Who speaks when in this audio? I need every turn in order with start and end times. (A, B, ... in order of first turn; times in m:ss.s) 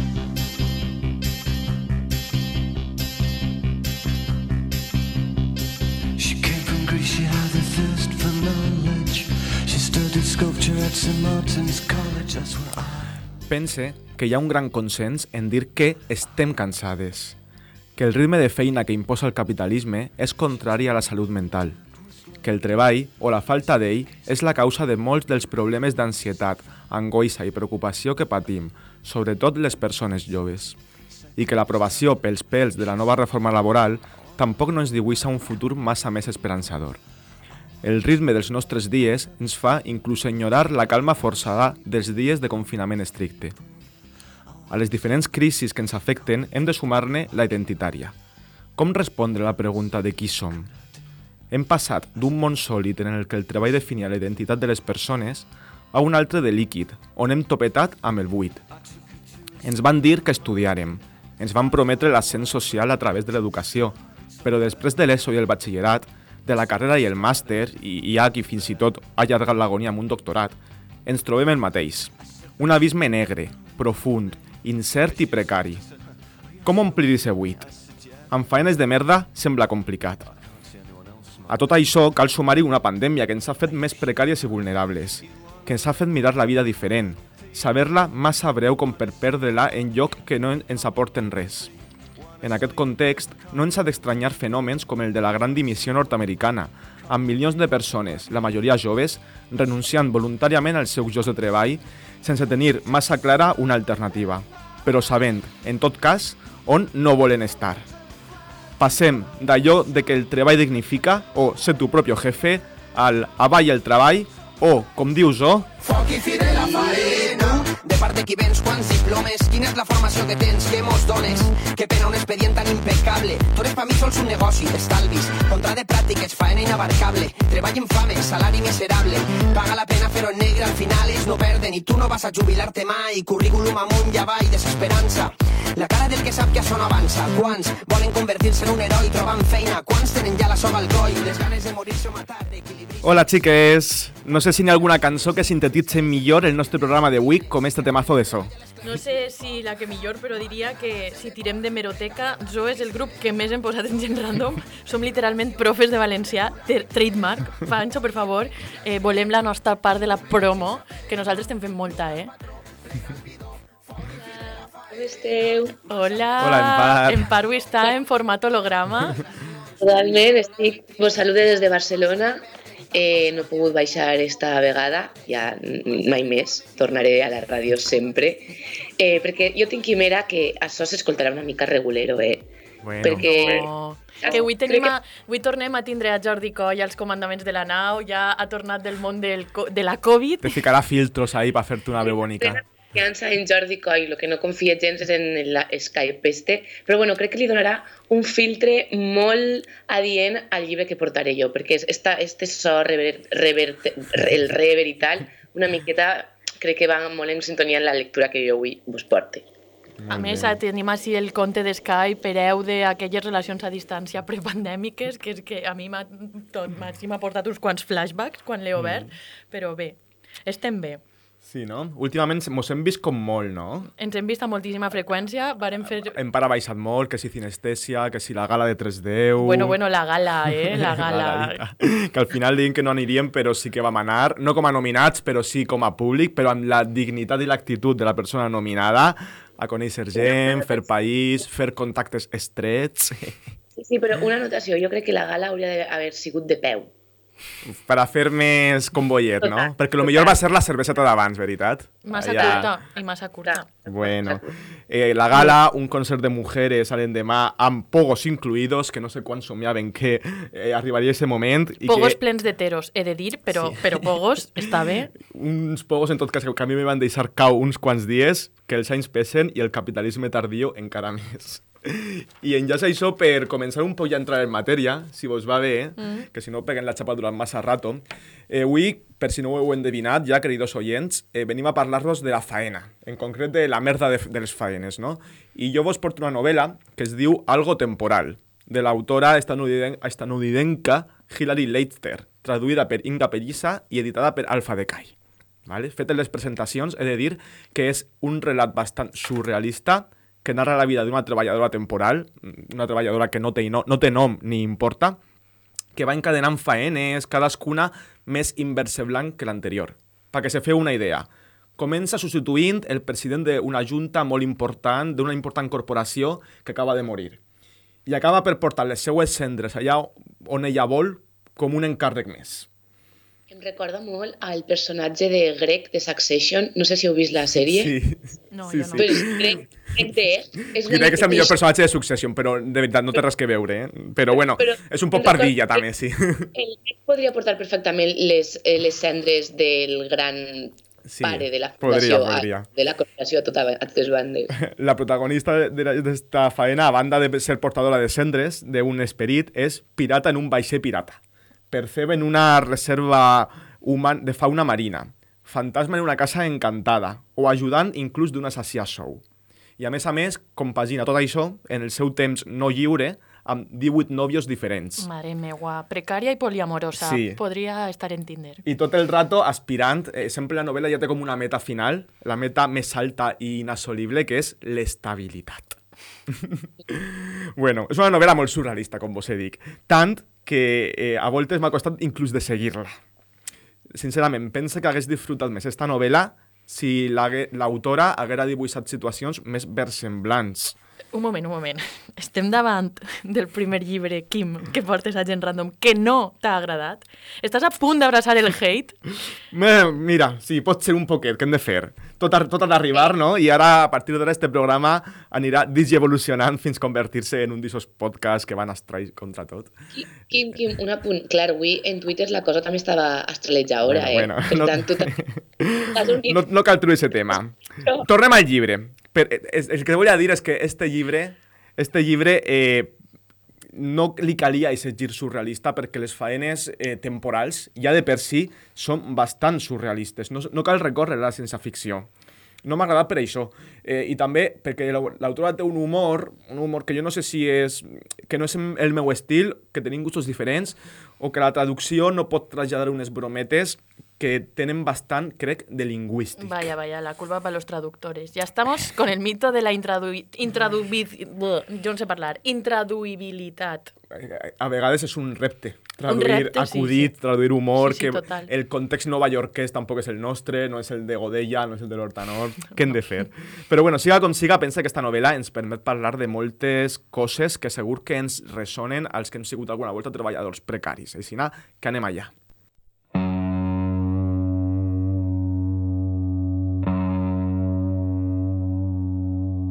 0:06.2-0:13.3 A
0:13.5-0:17.4 B
0:18.0-0:21.8 B
0:22.4-0:30.8 B
0:31.4-0:37.0 B
0:37.8-0:43.6 B
0:44.7-0:48.2 B
0:48.8-0:50.7 B
0:51.5-0:58.6 B
0:59.6-1:15.8 B
1:16.6-1:17.7 B
1:18.3-1:20.3 B
1:21.5-1:31.7 B
1:32.4-1:47.9 B
1:48.8-1:55.7 B
1:55.8-2:23.1 C
2:23.0-2:28.5 B
2:28.8-2:42.3 D
2:44.9-2:45.8 E
2:45.9-2:49.2 D
2:46.4-2:47.3 B
2:49.8-3:04.9 E
3:02.8-3:03.7 B
3:03.1-3:10.5 D
3:10.4-3:12.6 B
3:12.0-3:29.4 E
3:30.0-3:30.6 B
3:30.1-3:41.0 D
3:38.8-3:39.1 B
3:41.4-3:43.9 B
3:43.9-3:46.2 D
3:45.9-3:49.8 B
3:49.4-3:51.6 D
3:50.4-4:03.4 B
4:00.2-4:00.8 E
4:03.8-4:06.9 E
4:07.6-4:12.7 B
4:09.4-4:10.4 E
4:12.0-4:13.7 D
4:12.4-4:12.6 E
4:13.5-4:14.5 E
4:13.9-4:22.2 B
4:21.8-4:25.1 D
4:23.5-4:24.6 B
4:25.2-4:55.1 B
4:36.0-4:36.3 D
4:55.6-5:05.2 B
5:05.9-5:17.4 B
5:18.1-5:22.7 B
5:23.5-5:27.9 E
5:27.6-5:29.6 B
5:28.5-5:29.1 D
5:29.0-5:31.6 E
5:30.8-5:36.5 B
5:34.3-5:35.8 E
5:36.6-5:44.5 E
5:41.0-5:42.7 B
5:44.6-5:51.2 B
5:51.7-5:59.2 B
5:59.8-6:05.1 B
6:05.0-6:08.6 D
6:07.0-6:07.4 B
6:08.6-6:23.0 B
6:23.9-6:30.8 B
6:31.1-6:39.0 D
6:39.5-6:49.7 B
6:49.9-6:55.1 E
6:53.8-7:02.9 B
6:55.9-6:56.4 E
7:03.7-7:12.1 B
7:12.6-7:26.7 B
7:26.4-7:33.9 D
7:34.1-7:52.3 B
7:36.1-7:37.1 D
7:37.8-7:38.5 D